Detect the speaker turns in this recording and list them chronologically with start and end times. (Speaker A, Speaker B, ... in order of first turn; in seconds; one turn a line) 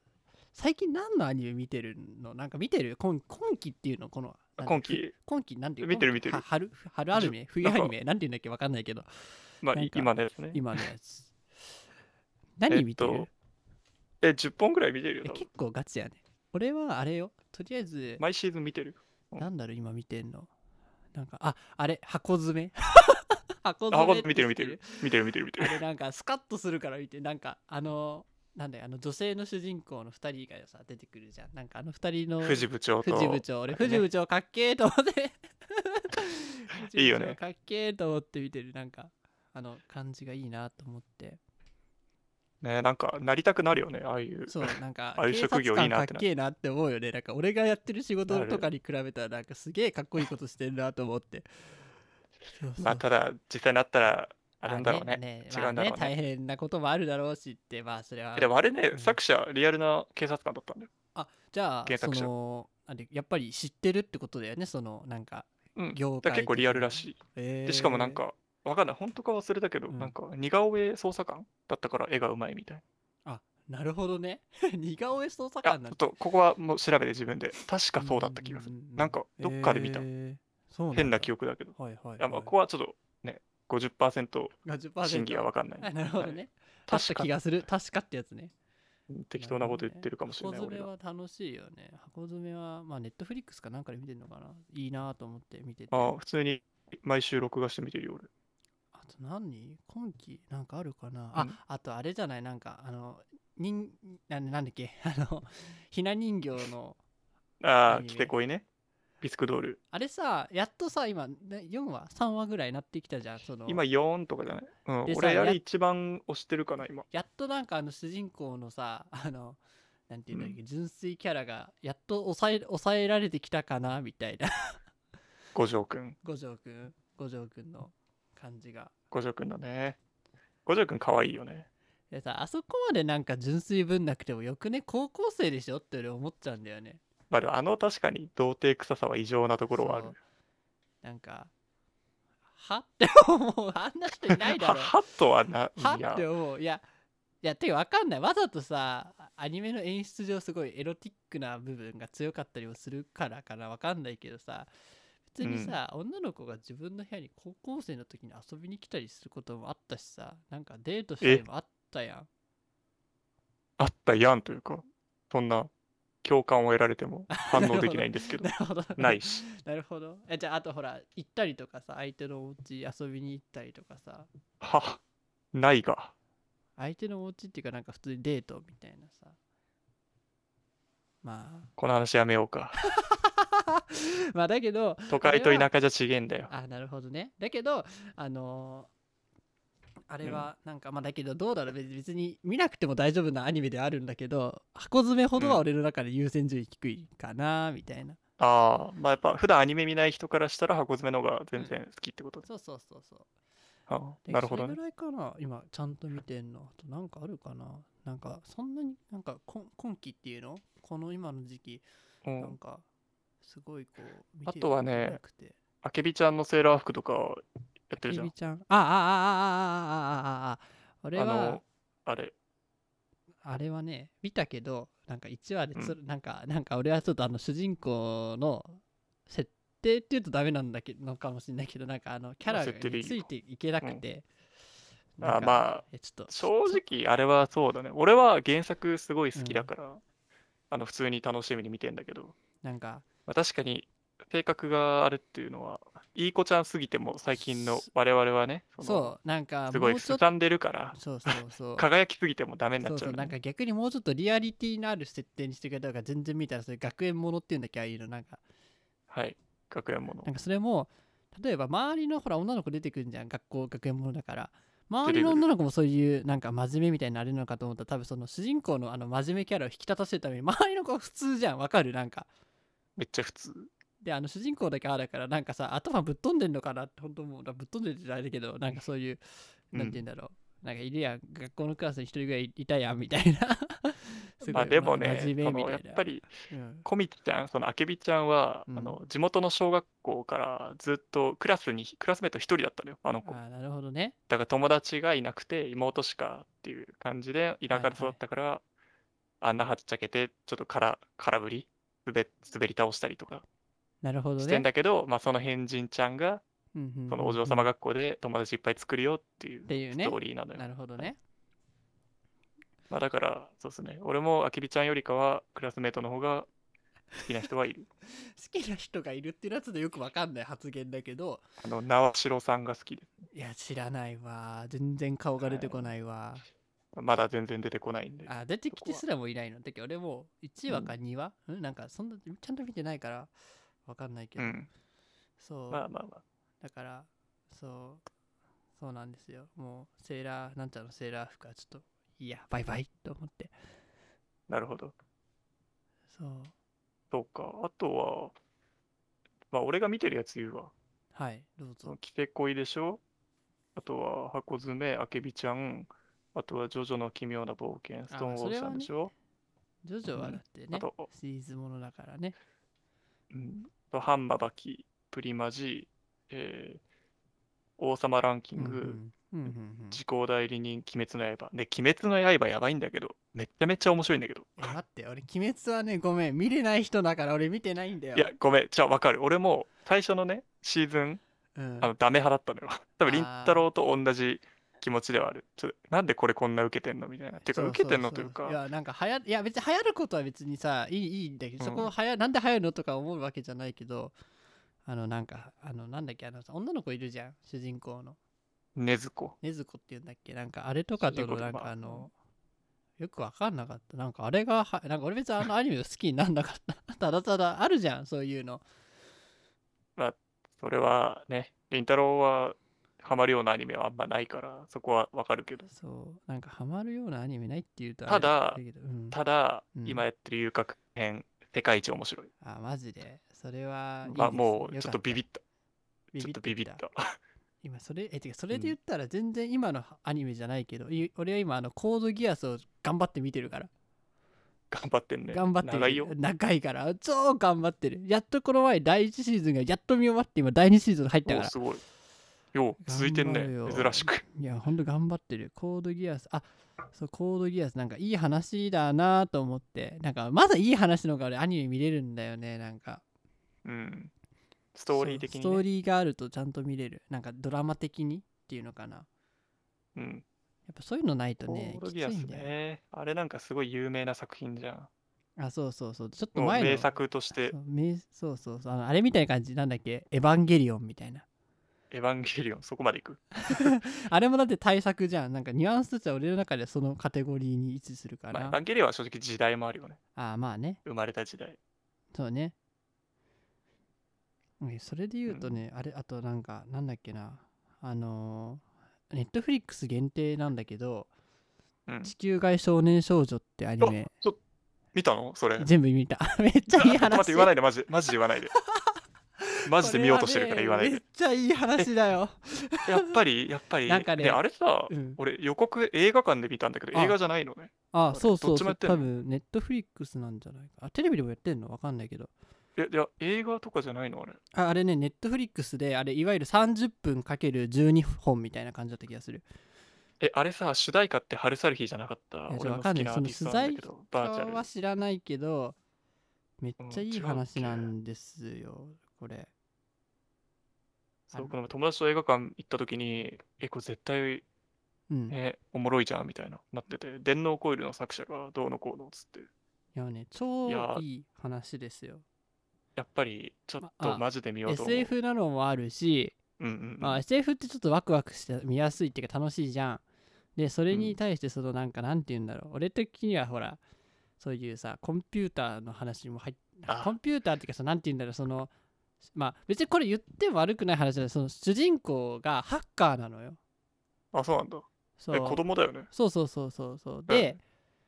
Speaker A: 0.5-9.1
Speaker B: 4.6-5.1
Speaker B: 5.8-6.4
Speaker B: 7.1-7.9
Speaker B: 9.6-10.8
Speaker A: 9.7-11.3
Speaker A: 12.6-13.3
Speaker B: 12.7-13.3
Speaker B: 14.2-15.4
Speaker A: 15.2-18.2
Speaker B: 18.2-19.4
Speaker A: 19.4-20.5
Speaker A: 21.1-25.0
Speaker B: 23.9-25.8
Speaker A: 25.6-41.4
Speaker B: 32.4-34.1
Speaker B: 36.9-37.4
Speaker B: 42.6-46.2
Speaker A: 44.5-51.5
Speaker B: 48.3-48.7
Speaker A: 52.5-53.1
Speaker B: 52.8-56.1
Speaker A: 54.6-59.2
Speaker B: 58.4-60.9
Speaker A: 61.1-68.2
Speaker B: 61.9-62.3
Speaker B: 65.8-72.8
Speaker A: 69.9-70.1
Speaker A: 73.2-76.0
Speaker B: 75.6-80.0
Speaker A: 78.0-82.5
Speaker B: 80.9-87.3
Speaker A: 84.6-88.5
Speaker B: 89.1-90.9
Speaker A: 89.4-96.1
Speaker B: 95.9-98.3
Speaker A: 98.9-107.0
Speaker B: 107.6-108.6
Speaker A: 107.9-108.3
Speaker B: 109.2-109.8
Speaker A: 109.9-113.8
Speaker B: 113.7-117.0
Speaker A: 115.0-115.6
Speaker A: 117.1-124.8
Speaker B: 120.3-120.6
Speaker B: 125.5-126.2
Speaker A: 126.2-128.9
Speaker B: 129.1-130.0
Speaker B: 130.7-131.7
Speaker A: 132.1-137.0
Speaker B: 137.3-140.1
Speaker A: 139.7-140.2
Speaker A: 141.0-141.5
Speaker A: 142.5-145.0
Speaker B: 144.3-146.3
Speaker A: 145.8-146.8
Speaker A: 147.4-154.7
Speaker A: 155.3-162.3
Speaker B: 155.4-155.8
Speaker B: 163.8-165.7
Speaker B: 166.2-169.4
Speaker A: 167.3-174.3
Speaker B: 174.6-175.0
Speaker B: 175.5-176.1
Speaker A: 176.8-179.4
Speaker A: 181.2-181.7
Speaker B: 181.8-182.7
Speaker A: 182.8-185.7
Speaker B: 185.1-186.5
Speaker A: 186.5-188.9
Speaker A: 190.1-198.2
Speaker B: 190.2-190.5
Speaker B: 195.4-195.6
Speaker B: 198.4-202.5
Speaker A: 202.4-203.3
Speaker B: 203.9-204.8
Speaker A: 204.2-211.8
Speaker B: 212.2-212.6
Speaker A: 212.4-212.8
Speaker A: 213.4-215.6
Speaker B: 214.4-215.2
Speaker B: 215.8-218.3
Speaker A: 218.0-221.6
Speaker B: 221.2-222.3
Speaker A: 223.4-234.3
Speaker B: 232.4-233.3
Speaker A: 235.2-236.8
Speaker B: 235.2-240.0
Speaker A: 239.3-239.7
Speaker B: 240.7-242.3
Speaker A: 242.6-243.0
Speaker B: 243.3-249.2
Speaker A: 247.3-247.8
Speaker A: 248.8-250.2
Speaker B: 249.7-253.3
Speaker A: 250.9-251.9
Speaker A: 252.8-258.4
Speaker B: 259.1-260.3
Speaker A: 260.2-272.3
Speaker B: 265.0-265.4
Speaker B: 273.0-273.7
Speaker A: 274.0-286.9
Speaker B: 279.7-280.0
Speaker B: 284.5-286.3
Speaker B: 286.8-293.4
Speaker A: 288.7-289.0
Speaker A: 293.2-294.1
Speaker B: 294.3-298.6
Speaker A: 297.7-298.2
Speaker B: 299.4-303.4
Speaker A: 304.0-304.7
Speaker B: 304.4-306.4
Speaker A: 306.7-307.7
Speaker B: 307.1-311.1
Speaker A: 309.7-311.2
Speaker B: 312.9-316.5
Speaker B: 317.2-317.9
Speaker A: 318.3-321.4
Speaker B: 321.6-323.2
Speaker A: 323.3-326.4
Speaker B: 325.4-325.9
Speaker B: 326.9-329.0
Speaker A: 328.3-333.3
Speaker A: 333.8-334.6
Speaker B: 334.4-334.7
Speaker A: 335.4-335.8
Speaker B: 335.7-336.2
Speaker A: 336.6-338.0
Speaker A: 338.8-343.5
Speaker B: 344.5-344.9
Speaker A: 346.1-346.5
Speaker B: 347.1-348.4
Speaker B: 349.5-350.7
Speaker A: 351.1-351.9
Speaker B: 351.9-353.0
Speaker B: 353.8-359.1
Speaker A: 358.1-358.9
Speaker A: 359.8-362.4
Speaker B: 360.1-361.1
Speaker B: 363.3-366.8
Speaker B: 367.8-374.7
Speaker A: 368.6-370.0
Speaker A: 374.6-378.3
Speaker B: 378.1-381.2
Speaker A: 381.6-381.9
Speaker B: 381.8-388.6
Speaker A: 383.0-383.7
Speaker A: 387.4-394.1
Speaker B: 391.6-391.9
Speaker A: 394.8-398.2
Speaker B: 398.8-399.4
Speaker A: 399.4-402.1
Speaker B: 401.0-402.1
Speaker A: 403.0-408.6
Speaker B: 409.9-415.7
Speaker A: 415.7-419.2
Speaker B: 418.1-422.3
Speaker A: 419.7-420.0
Speaker A: 422.4-425.2
Speaker B: 424.1-425.4
Speaker B: 426.1-427.2
Speaker A: 426.1-426.8
Speaker A: 427.6-433.7
Speaker B: 434.7-436.1
Speaker A: 435.3-441.5
Speaker B: 441.2-441.8
Speaker B: 442.5-444.2
Speaker A: 442.8-453.0
Speaker B: 453.6-454.1
Speaker B: 454.7-455.6
Speaker A: 454.9-459.1
Speaker B: 459.9-460.2
Speaker A: 460.7-462.5
Speaker B: 461.4-464.9
Speaker A: 465.4-471.2
Speaker B: 466.3-467.5
Speaker B: 471.9-473.8
Speaker A: 473.4-478.6
Speaker B: 478.3-480.0
Speaker A: 480.1-480.8
Speaker B: 480.8-481.6
Speaker A: 482.1-482.5
Speaker A: 484.6-491.1
Speaker B: 485.3-485.6
Speaker B: 491.9-492.1
Speaker A: 492.0-494.1
Speaker B: 493.8-494.4
Speaker B: 494.9-495.7
Speaker A: 495.6-497.5
Speaker B: 496.7-498.5
Speaker A: 498.5-503.1
Speaker B: 499.6-501.0
Speaker B: 502.9-509.1
Speaker A: 503.9-505.2
Speaker A: 507.9-512.3
Speaker B: 512.8-514.4
Speaker A: 514.5-519.4
Speaker B: 520.2-524.7
Speaker A: 522.5-525.8
Speaker A: 526.6-529.5
Speaker B: 526.8-527.9
Speaker B: 531.3-534.4
Speaker A: 535.1-535.4
Speaker B: 535.3-539.5
Speaker A: 539.9-542.2
Speaker B: 540.6-541.0
Speaker B: 543.0-545.1
Speaker A: 543.8-546.4
Speaker B: 546.6-547.2
Speaker A: 547.0-550.0
Speaker A: 550.5-553.8
Speaker B: 550.9-551.2
Speaker A: 554.4-558.7
Speaker B: 556.9-557.1
Speaker A: 559.3-563.6
Speaker B: 564.3-566.1
Speaker A: 565.2-567.6
Speaker B: 567.3-567.5